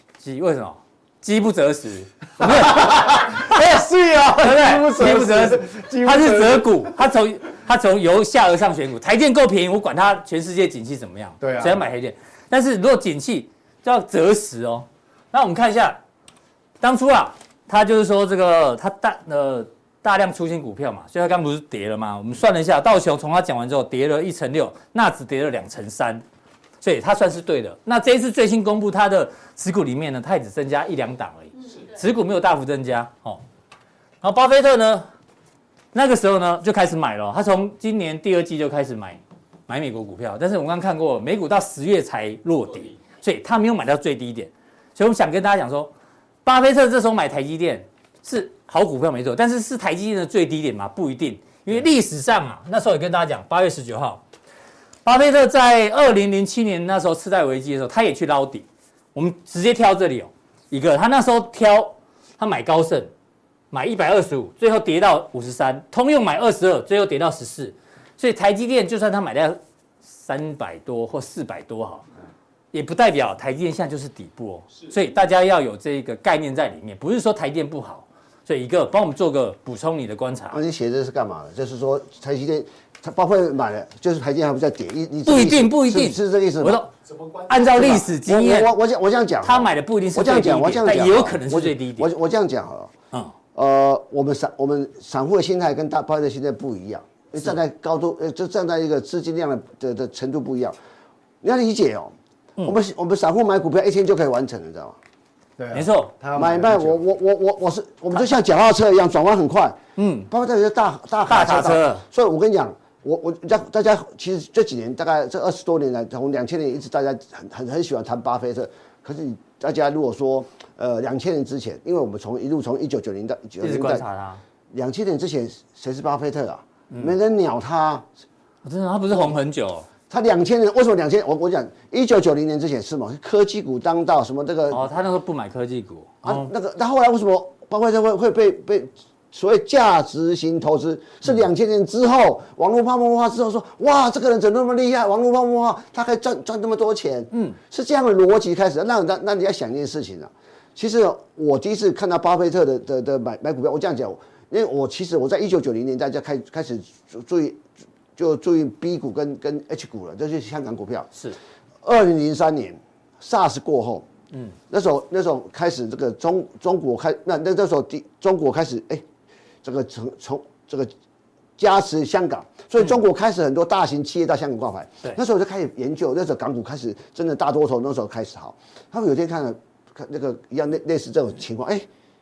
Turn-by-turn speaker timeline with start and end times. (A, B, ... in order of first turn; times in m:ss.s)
0:00.2-0:16.0 A
0:02.4-0:06.9 B
0:11.4-0:11.8 B
0:16.8-0:26.2 A
0:26.8-0:33.4 A
0:34.2-0:35.1 A
0:35.9-0:45.9 A
0:46.4-0:54.2 A
0:55.0-1:03.1 A
1:03.7-1:12.0 A
1:12.7-1:20.6 A
1:20.5-1:26.8 C
1:25.2-1:26.9 A
1:27.5-1:28.7 A
1:27.6-1:32.9 C
1:29.4-1:32.1 A
1:33.6-1:40.8 C
1:41.4-1:45.0 C
1:45.6-1:47.0 B
1:45.7-1:46.1 A
1:46.4-1:49.8 C
1:50.0-1:50.3 A
1:50.3-2:04.0 C
1:51.3-1:52.0 A
2:03.6-2:04.4 A
2:04.7-2:08.1 C
2:08.6-2:09.9 A
2:10.1-2:14.8 C
2:14.7-2:16.5 A
2:16.2-2:37.6 C
2:27.3-2:27.6 A
2:38.2-2:41.1 C
2:41.8-2:44.1 C
2:44.7-2:49.0 C
2:49.6-2:50.9 C
2:51.6-3:01.9 C